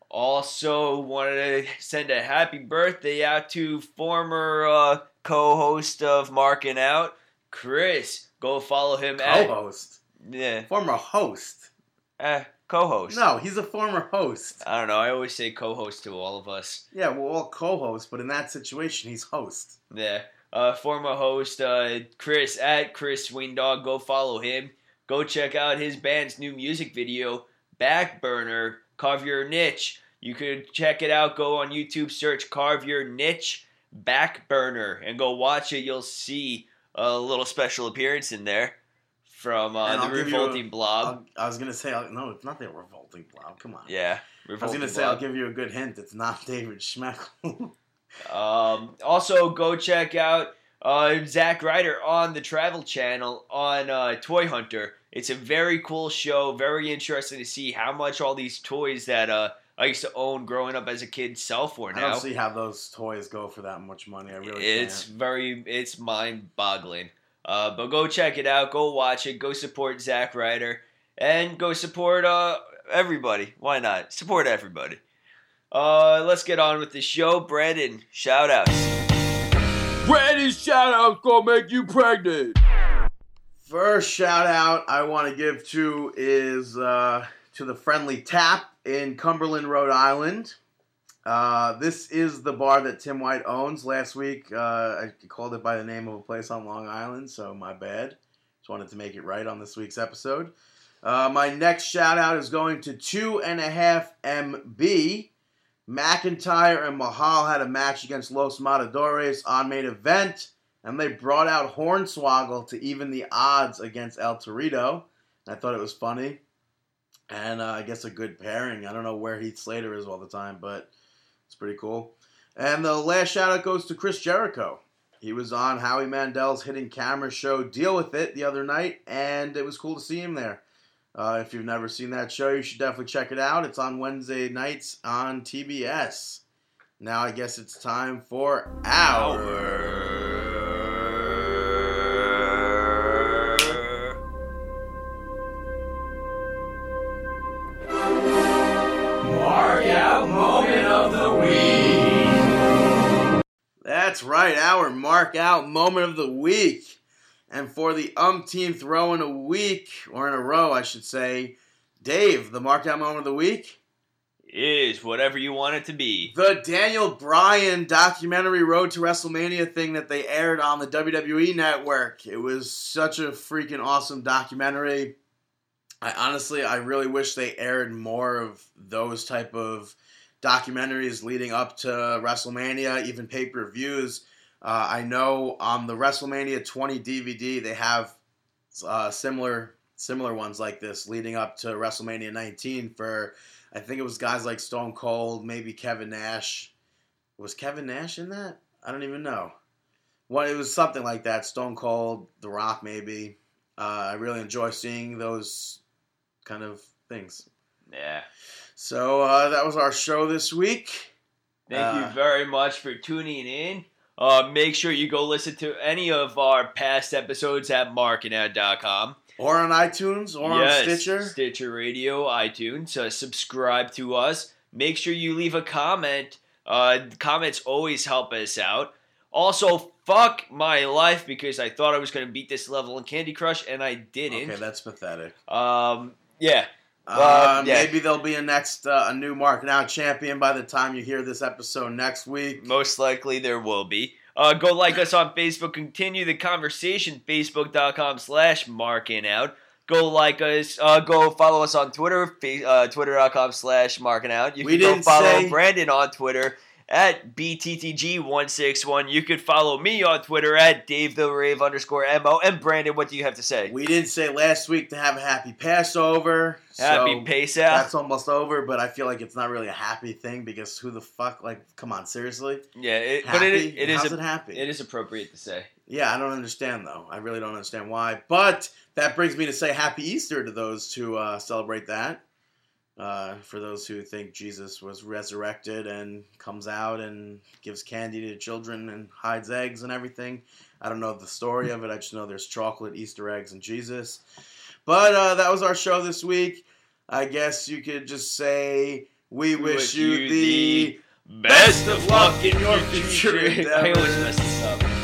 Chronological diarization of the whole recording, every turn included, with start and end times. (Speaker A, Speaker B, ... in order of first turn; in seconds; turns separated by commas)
Speaker A: 0.1-9.5, Speaker B: 9.2-10.0, Speaker A: 10.2-10.7, Speaker B: 10.7-11.7, Speaker A: 12.2-13.2, Speaker B: 13.1-14.6, Speaker A: 14.6-16.8, Speaker B: 16.9-19.8, Speaker A: 19.9-41.1, Speaker B: 39.8-43.9, Speaker A: 43.9-45.2, Speaker B: 44.6-47.7, Speaker A: 48.2-62.2, Speaker B: 61.9-65.0, Speaker A: 64.4-75.0, Speaker A: 75.7-78.9, Speaker C: 80.0-82.6, Speaker B: 83.6-90.6, Speaker B: 91.2-105.3, Speaker B: 105.9-116.4, Speaker B: 117.3-120.9, Speaker B: 121.5-130.6, Speaker B: 131.1-136.4, Speaker B: 137.0-139.6, Speaker A: 139.1-144.2, Speaker A: 149.2-152.3, Speaker B: 153.8-163.8, Speaker A: 164.5-166.3, Speaker B: 166.3-175.1, Speaker B: 176.0-188.2, Speaker B: 188.7-196.7, Speaker B: 197.4-199.5, Speaker B: 200.3-205.8, Speaker B: 206.4-207.4, Speaker A: 207.9-208.3, Speaker B: 208.8-211.1, Speaker A: 211.7-219.2, Speaker B: 211.7-212.2, Speaker B: 219.4-221.3, Speaker A: 220.4-234.6, Speaker B: 234.3-235.3, Speaker A: 235.5-237.9, Speaker B: 237.1-242.6, Speaker A: 242.6-263.7, Speaker B: 254.6-255.6, Speaker B: 263.6-272.6, Speaker A: 266.8-267.9, Speaker A: 272.8-275.7, Speaker B: 273.2-274.7, Speaker B: 275.9-282.2, Speaker B: 283.0-294.2, Speaker B: 294.9-304.5, Speaker A: 299.5-304.9